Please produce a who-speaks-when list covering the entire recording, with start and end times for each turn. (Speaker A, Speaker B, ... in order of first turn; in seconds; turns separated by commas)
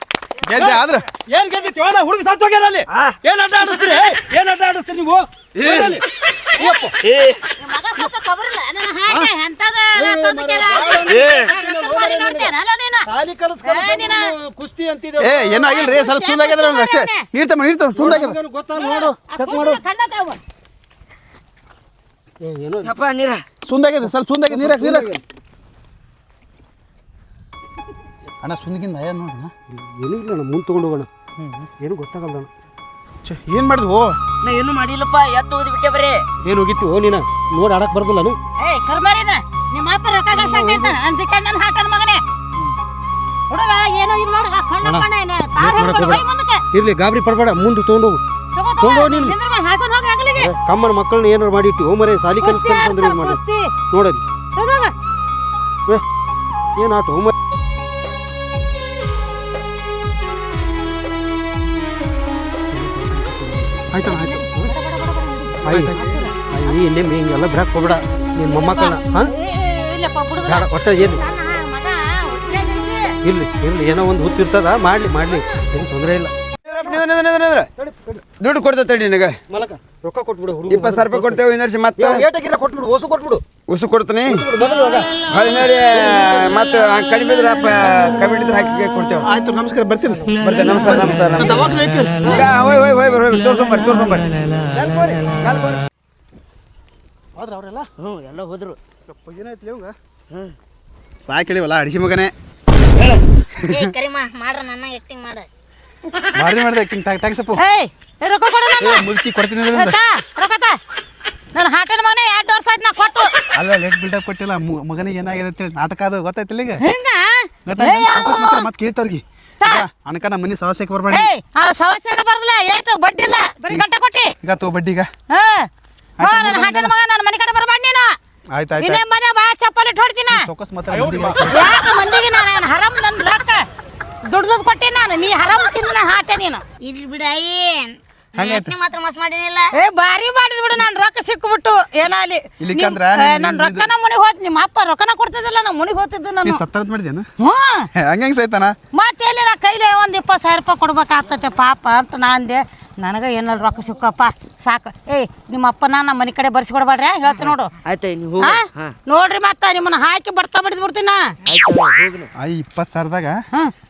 Speaker A: 0.4-1.0, Speaker B: 0.5-6.0, Speaker C: 6.5-6.9, Speaker B: 6.6-6.9, Speaker C: 7.6-13.1, Speaker B: 9.9-12.5, Speaker B: 13.1-15.6, Speaker C: 13.6-14.3, Speaker A: 15.2-18.4, Speaker C: 15.6-17.2, Speaker B: 17.9-19.8, Speaker C: 18.7-20.4, Speaker B: 22.4-22.9, Speaker D: 22.9-23.4, Speaker A: 23.6-25.1, Speaker B: 24.5-25.2, Speaker A: 28.4-29.5, Speaker B: 29.7-31.1, Speaker A: 31.4-31.7, Speaker B: 31.8-32.5, Speaker A: 33.2-34.1, Speaker D: 34.4-36.2, Speaker B: 36.4-38.4, Speaker C: 38.6-42.2, Speaker B: 40.3-41.0, Speaker C: 43.5-46.6, Speaker B: 44.8-48.2, Speaker C: 48.5-50.5, Speaker B: 48.8-49.4, Speaker B: 50.4-54.2, Speaker C: 52.4-53.7, Speaker C: 54.5-54.9, Speaker B: 56.8-57.3, Speaker B: 62.7-64.7, Speaker A: 63.9-64.5, Speaker C: 64.1-66.8, Speaker A: 65.6-66.2, Speaker B: 65.7-65.9, Speaker B: 66.5-69.3, Speaker C: 68.5-73.2, Speaker B: 70.4-71.2, Speaker B: 73.2-76.3, Speaker C: 75.3-75.7, Speaker E: 76.7-77.7, Speaker B: 77.8-78.2, Speaker E: 78.3-79.4, Speaker B: 79.5-81.4, Speaker E: 80.7-82.2, Speaker B: 82.0-83.5, Speaker E: 83.5-84.4, Speaker B: 84.3-85.2, Speaker E: 85.2-89.3, Speaker A: 89.2-92.5, Speaker B: 90.3-91.1, Speaker E: 90.4-91.6, Speaker E: 92.2-94.3, Speaker B: 94.7-95.8, Speaker A: 97.3-97.9, Speaker D: 98.0-98.8, Speaker A: 99.1-99.9, Speaker A: 101.2-102.3, Speaker F: 103.7-105.5, Speaker A: 106.3-107.6, Speaker C: 107.5-109.0, Speaker A: 108.8-110.0, Speaker C: 109.7-110.8, Speaker C: 111.5-113.3, Speaker A: 113.5-116.8, Speaker C: 116.8-118.7, Speaker A: 117.7-121.3, Speaker C: 121.1-124.3, Speaker A: 124.4-125.1, Speaker C: 125.3-125.7, Speaker A: 126.2-126.9, Speaker C: 126.2-128.1, Speaker A: 128.5-129.0, Speaker C: 128.8-130.4, Speaker A: 130.3-131.7, Speaker C: 131.5-133.6, Speaker C: 134.3-136.6, Speaker F: 136.8-139.7, Speaker A: 138.3-138.7, Speaker C: 139.7-146.6, Speaker A: 142.6-143.9, Speaker A: 146.4-147.3, Speaker C: 147.4-147.9, Speaker A: 147.9-148.7, Speaker C: 148.9-157.7, Speaker D: 157.9-158.9, Speaker C: 158.4-161.3, Speaker D: 161.5-162.3, Speaker A: 162.4-163.4